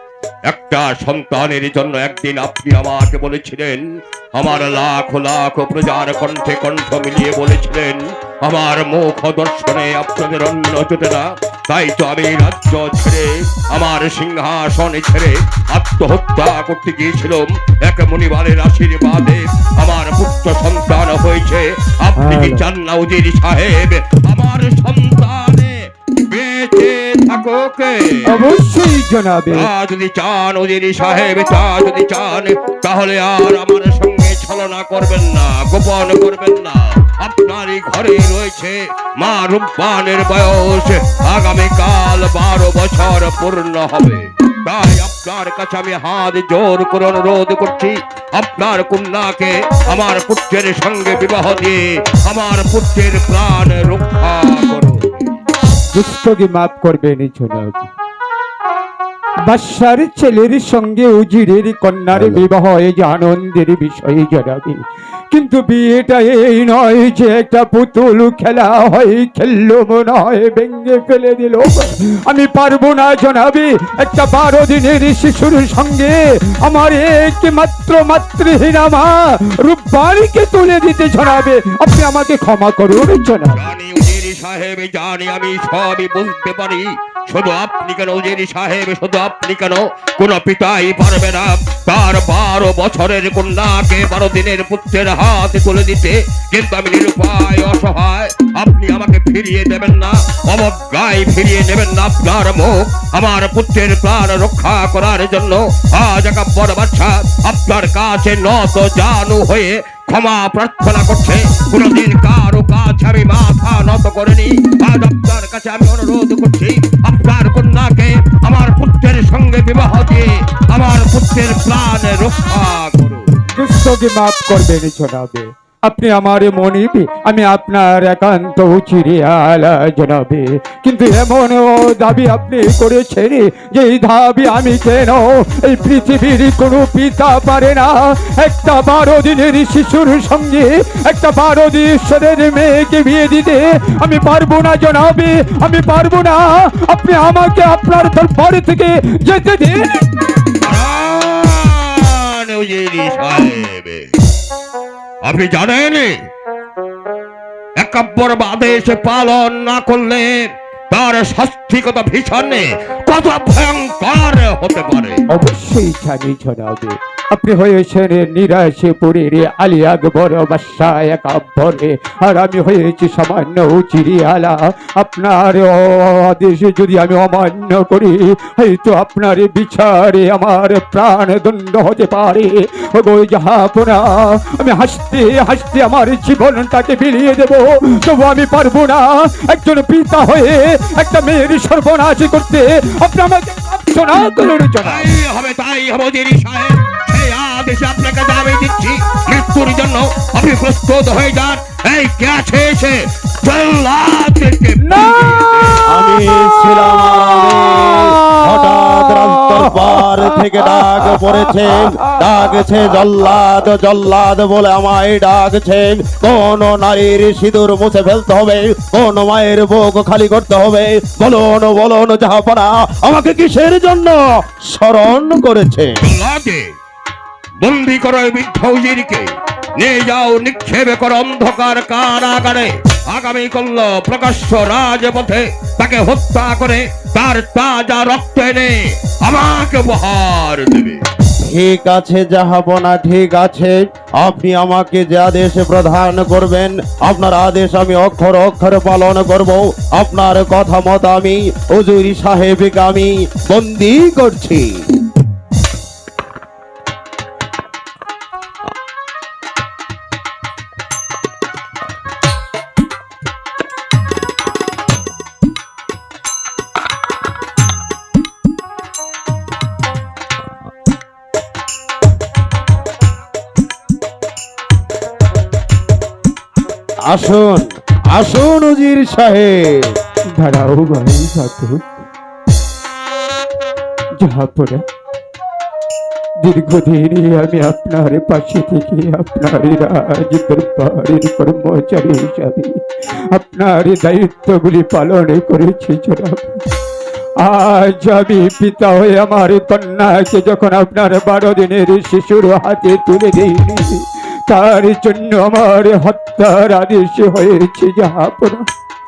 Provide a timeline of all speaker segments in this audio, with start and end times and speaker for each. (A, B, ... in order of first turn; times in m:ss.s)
0:00.5-0:25.8 A
0:22.2-0:22.6 B
0:26.3-0:28.4 A
0:28.2-0:29.7 B
0:29.5-0:55.0 A
0:55.9-0:57.9 B
0:59.4-1:23.7 B
1:02.2-1:02.4 A
1:23.5-2:03.7 A
2:03.6-2:30.1 B
2:30.6-2:34.0 A
2:35.2-2:36.1 A
2:37.8-2:45.2 A
2:45.3-3:15.1 B
3:14.8-3:26.1 A
3:24.8-3:25.9 B
3:25.8-3:45.9 C
3:26.4-3:30.8 B
3:31.4-3:32.0 B
3:46.0-3:46.6 A
3:47.6-4:01.0 A
4:01.5-4:14.8 C
4:37.0-4:40.0 C
4:40.4-4:41.8 B
4:44.2-4:44.8 B
4:46.4-4:56.6 B
4:57.4-5:08.7 B